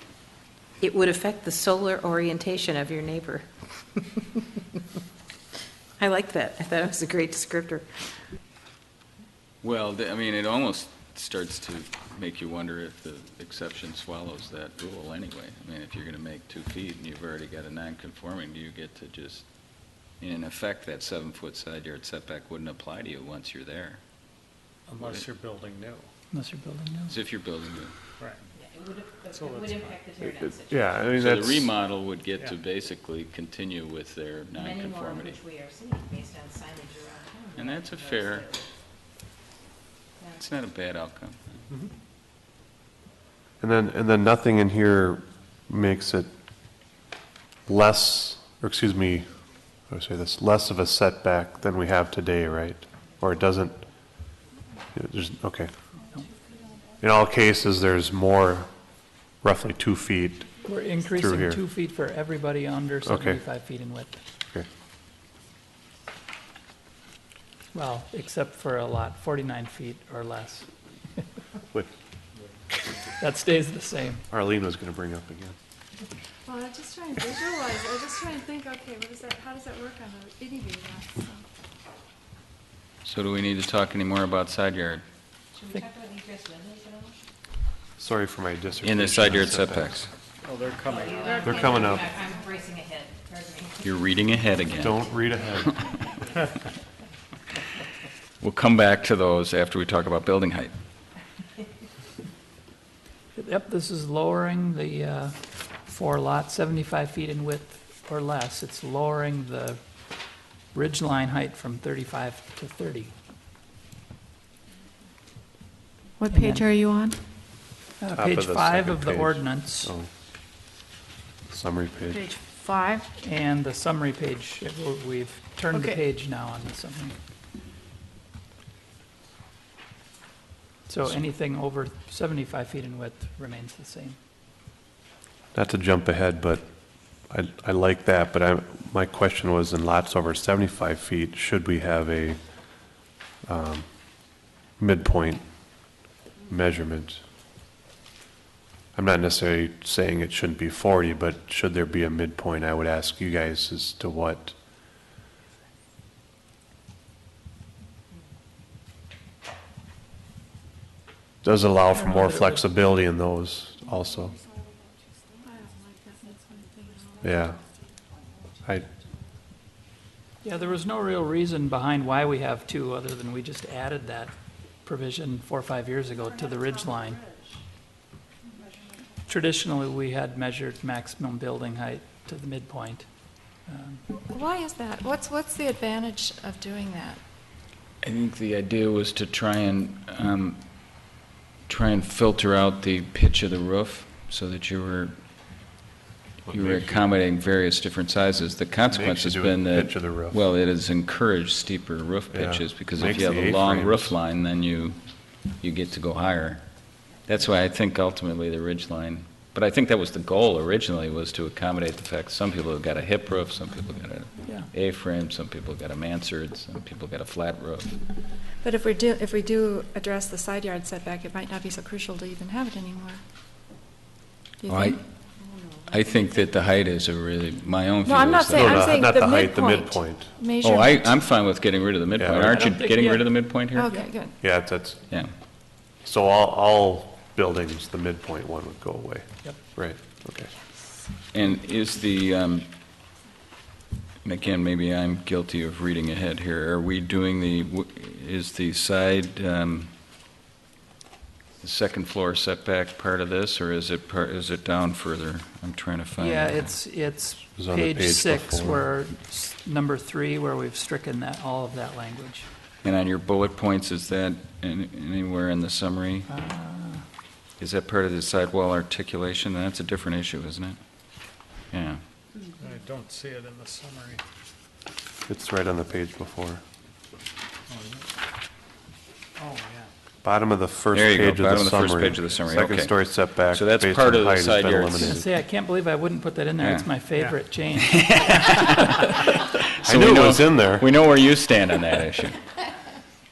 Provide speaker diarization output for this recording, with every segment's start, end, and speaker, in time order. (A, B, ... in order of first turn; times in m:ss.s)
0:00.8-0:04.2 A
0:06.0-0:07.9 A
0:09.6-0:24.0 B
0:24.9-0:26.1 C
0:26.3-0:27.2 D
0:27.1-0:27.9 B
0:28.6-0:30.9 A
0:29.2-0:30.1 C
0:30.2-0:31.7 E
0:31.2-0:35.4 B
0:34.6-0:38.7 A
0:37.5-0:38.5 B
0:40.4-0:41.6 B
0:43.6-0:46.3 E
0:47.7-0:49.3 E
0:49.9-0:53.8 E
0:54.9-0:55.7 E
0:57.0-0:58.7 E
0:59.4-1:00.5 E
1:00.6-1:04.2 D
1:01.1-1:01.6 E
1:03.0-1:03.4 E
1:07.7-1:10.7 D
1:13.2-1:14.2 D
1:14.3-1:15.6 E
1:16.4-1:21.4 F
1:23.0-1:25.0 B
1:25.5-1:27.1 A
1:28.0-1:29.9 E
1:28.8-1:30.1 B
1:30.4-1:31.6 C
1:30.9-1:34.0 A
1:31.4-1:32.1 E
1:33.8-1:35.0 B
1:34.8-1:35.7 E
1:38.4-1:40.7 B
1:43.3-1:49.8 D
1:50.7-1:53.1 D
1:56.2-1:57.2 F
1:56.3-1:56.6 D
1:58.0-1:59.9 D
1:58.1-2:00.1 E
2:01.5-2:02.3 E
2:02.1-2:03.0 F
2:03.2-2:07.2 D
2:05.7-2:06.0 F
2:10.9-2:14.2 D
2:15.5-2:16.7 E
2:17.2-2:22.9 E
2:23.4-2:25.8 E
2:26.4-2:27.2 E
2:28.9-2:34.6 E
2:41.4-2:44.4 E
2:41.9-2:42.6 D
2:45.7-2:47.1 F
2:47.2-2:47.6 E
2:50.4-2:54.3 D
2:54.8-2:57.2 D
2:59.2-3:03.1 D
3:03.7-3:04.0 D
3:04.3-3:07.2 F
3:08.0-3:15.2 B
3:16.4-3:17.1 E
3:16.5-3:38.0 B
3:18.9-3:20.4 E
3:22.3-3:24.1 E
3:38.6-3:43.2 F
3:44.6-3:45.0 F
3:44.7-3:45.0 B
3:45.9-3:49.0 B
3:48.0-3:51.1 F
3:48.5-3:50.3 E
3:50.6-3:54.0 B
3:52.2-3:52.7 E
3:52.4-3:53.2 D
3:53.7-3:54.4 F
3:54.4-3:55.0 E
3:56.0-4:00.5 E
4:01.3-4:02.7 B
4:04.2-4:09.9 B
4:11.6-4:16.7 B
4:16.2-4:22.5 D
4:17.6-4:18.8 E
4:22.8-4:26.3 B
4:26.3-4:27.0 D
4:27.6-4:32.0 B
4:32.6-4:34.2 C
4:35.3-4:36.6 E
4:37.7-4:38.1 C
4:39.4-4:39.9 C
4:40.2-4:45.3 E
4:40.9-4:45.2 B
4:45.0-4:48.2 D
4:46.6-4:46.9 B
4:47.1-4:47.4 C
4:47.9-4:52.4 B
4:49.8-4:50.9 E